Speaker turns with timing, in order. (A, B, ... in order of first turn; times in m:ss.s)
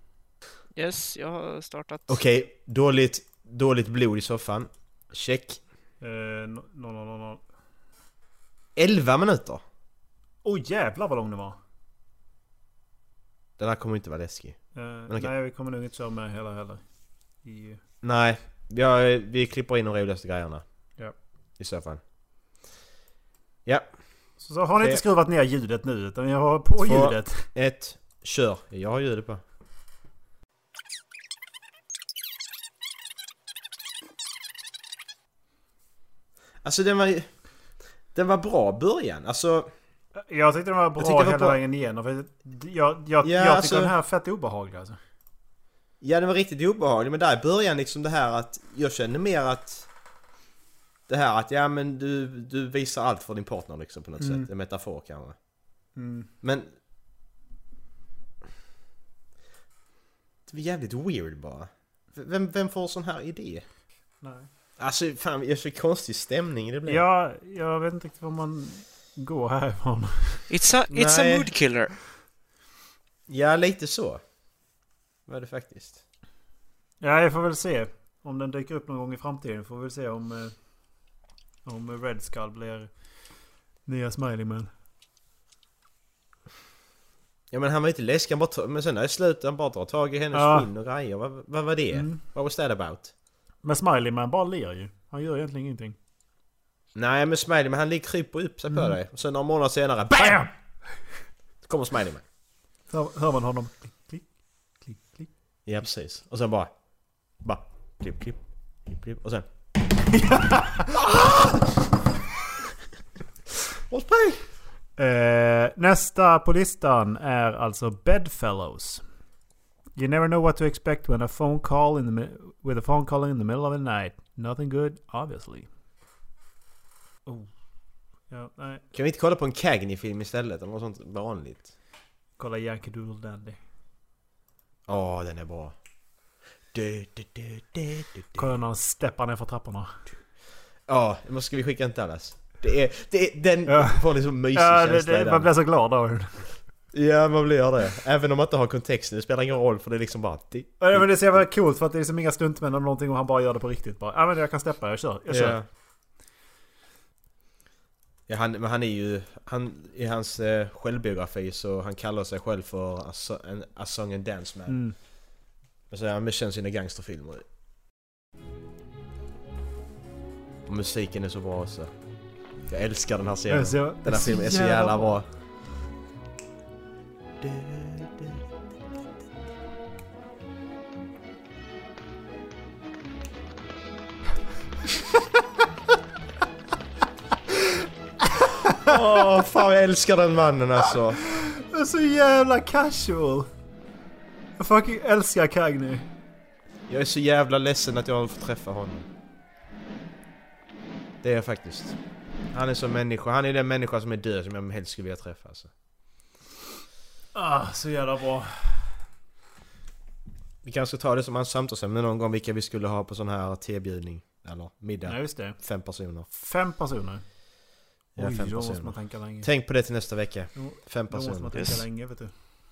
0:00.7-0:02.1 A
0:02.1-0:05.6 B
0:06.0-0:07.5 C
0:08.7-0:09.6 B
0:10.4-0:11.6 C
0:13.6-0:15.3 B
0:14.7-0:17.8 C
0:18.0-0:22.0 B
0:23.6-0:25.0 B
0:24.4-0:27.5 C
0:26.8-0:29.4 B
0:36.6-0:39.7 B
0:40.1-0:45.0 C
0:41.0-0:41.6 B
0:43.2-0:43.9 B
0:46.0-0:50.0 B
0:51.1-0:56.7 B
0:54.2-0:54.5 C
0:55.9-0:56.3 C
1:00.5-1:03.7 B
1:04.2-1:04.5 C
1:04.8-1:07.0 B
1:06.9-1:10.5 C
1:10.5-1:12.0 A
1:10.9-1:11.5 B
1:13.3-1:14.7 B
1:15.2-1:16.0 B
1:17.0-1:24.7 C
1:27.5-1:33.1 B
1:30.3-1:30.7 C
1:31.9-1:32.2 C
1:33.6-1:36.0 C
1:36.9-1:40.5 B
1:40.2-1:40.6 C
1:41.6-1:42.2 B
1:42.9-1:45.3 C
1:45.6-1:49.8 B
1:50.2-1:50.6 C
1:51.0-1:51.7 B
1:53.9-1:54.6 B
1:55.0-1:59.0 C
1:59.9-2:05.7 C
2:07.3-2:08.8 C
2:08.9-2:11.7 B
2:12.4-2:13.6 C
2:14.9-2:18.5 B
2:18.4-2:20.1 C
2:20.9-2:25.6 B
2:23.7-2:26.8 C
2:26.9-2:31.4 B
2:30.8-2:35.6 C
2:35.3-2:35.7 B
2:38.3-2:45.1 B
2:44.7-2:45.0 C
2:45.9-2:47.5 B
2:50.6-2:55.4 B
2:53.5-2:55.2 C
2:57.4-2:58.4 B
3:08.9-3:11.2 B
3:11.2-3:13.5 C
3:14.6-3:16.1 C
3:16.9-3:19.1 B
3:21.2-3:25.7 B
3:27.3-3:29.0 C
3:30.6-3:36.3 B
3:35.0-3:39.5 C
3:38.2-3:41.6 B
3:40.6-3:42.3 C
3:41.6-3:41.8 A